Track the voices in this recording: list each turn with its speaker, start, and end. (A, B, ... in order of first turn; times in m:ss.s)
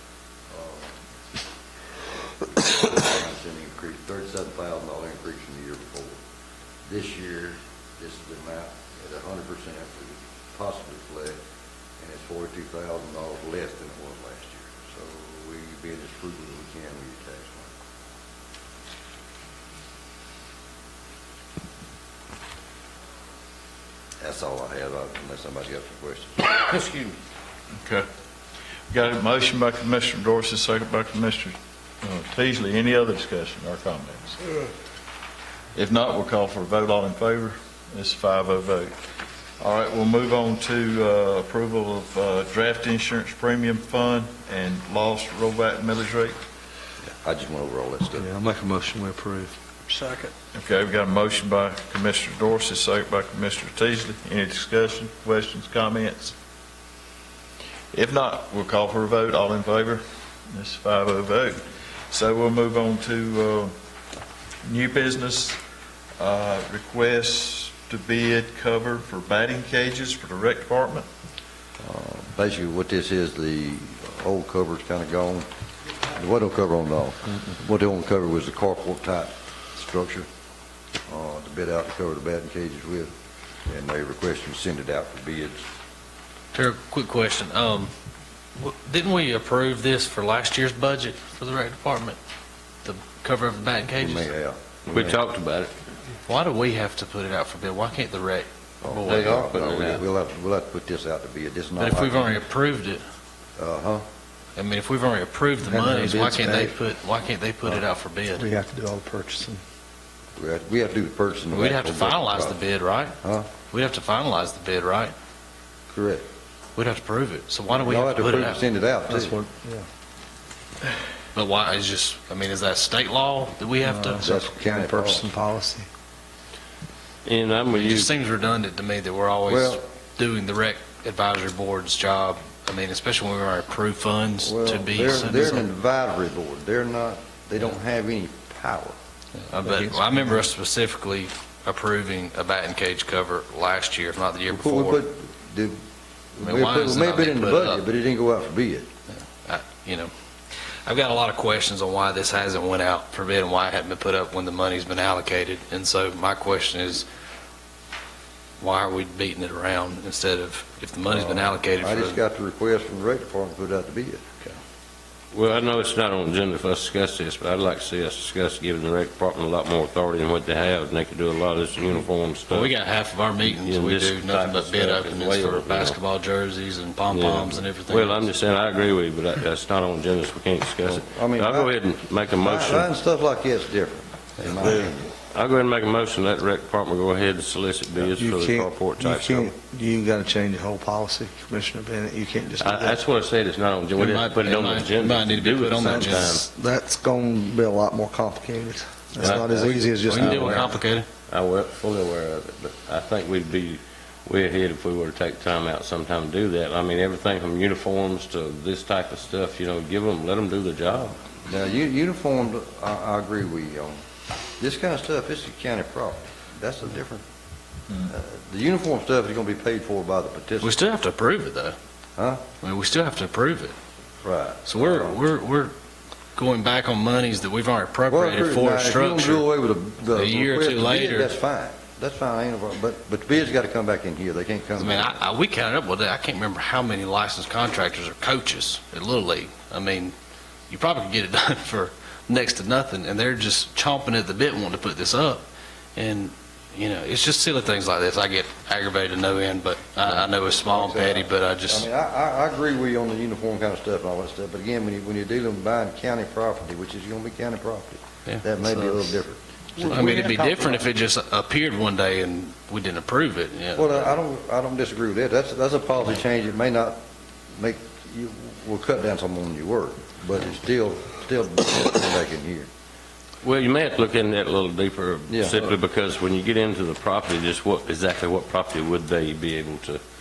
0:00.5-0:01.0 A
0:02.3-0:06.2 A
0:06.8-0:11.4 A
0:12.0-0:17.7 A
0:24.2-0:26.6 A
0:26.6-0:27.2 B
0:28.9-0:34.4 C
0:35.8-0:38.9 C
0:39.6-0:46.4 C
0:47.1-0:48.3 A
0:48.1-0:50.3 D
0:50.5-0:56.4 C
0:57.9-1:00.0 C
1:00.5-1:03.7 C
1:04.6-1:05.6 C
1:06.2-1:11.1 C
1:11.8-1:15.5 A
1:16.1-1:20.3 A
1:21.1-1:23.1 A
1:23.7-1:25.6 A
1:26.5-1:27.9 E
1:28.6-1:32.2 E
1:32.8-1:34.3 E
1:34.0-1:35.2 A
1:34.9-1:35.7 B
1:36.2-1:39.4 E
1:38.8-1:42.4 A
1:39.0-1:40.1 B
1:41.8-1:43.0 E
1:43.6-1:44.0 A
1:44.6-1:48.5 E
1:45.7-1:46.8 D
1:48.4-1:49.6 D
1:50.4-1:52.6 A
1:51.5-1:53.2 E
1:53.2-1:53.5 A
1:53.7-1:55.1 E
1:55.9-1:56.2 A
1:56.8-1:58.6 E
1:57.7-1:59.4 A
1:59.1-1:59.9 D
2:01.4-2:04.2 E
2:03.9-2:05.9 D
2:04.2-2:05.3 A
2:07.2-2:08.1 B
2:07.7-2:15.7 E
2:09.5-2:09.8 A
2:14.4-2:19.0 A
2:19.4-2:25.0 E
2:19.6-2:20.4 D
2:24.5-2:25.8 A
2:26.4-2:28.9 A
2:26.4-2:27.8 E
2:29.1-2:30.1 E
2:30.8-2:37.1 E
2:38.6-2:42.2 E
2:41.1-2:44.3 A
2:45.3-2:52.7 B
2:52.5-2:58.3 E
2:53.4-2:56.0 B
2:57.1-3:02.9 B
3:00.8-3:01.8 A
3:02.4-3:05.1 A
3:05.3-3:09.5 B
3:08.1-3:13.0 D
3:12.6-3:16.4 B
3:14.0-3:16.4 E
3:15.8-3:20.8 D
3:19.2-3:20.7 B
3:20.0-3:21.1 E
3:21.3-3:31.2 B
3:31.5-3:34.0 A
3:34.6-3:37.2 A
3:38.1-3:40.8 A
3:40.6-3:41.8 E
3:42.2-3:42.4 A
3:42.6-3:43.8 E
3:44.2-3:45.2 A
3:44.6-3:45.7 E
3:46.4-3:49.5 E
3:48.1-3:55.2 A
3:50.1-3:51.3 E
3:54.8-4:00.1 E
4:00.7-4:05.4 E
4:06.0-4:11.9 E
4:10.0-4:20.4 A
4:19.8-4:24.1 E
4:23.7-4:27.0 A
4:27.6-4:32.7 A
4:33.4-4:40.0 B
4:35.3-4:35.8 A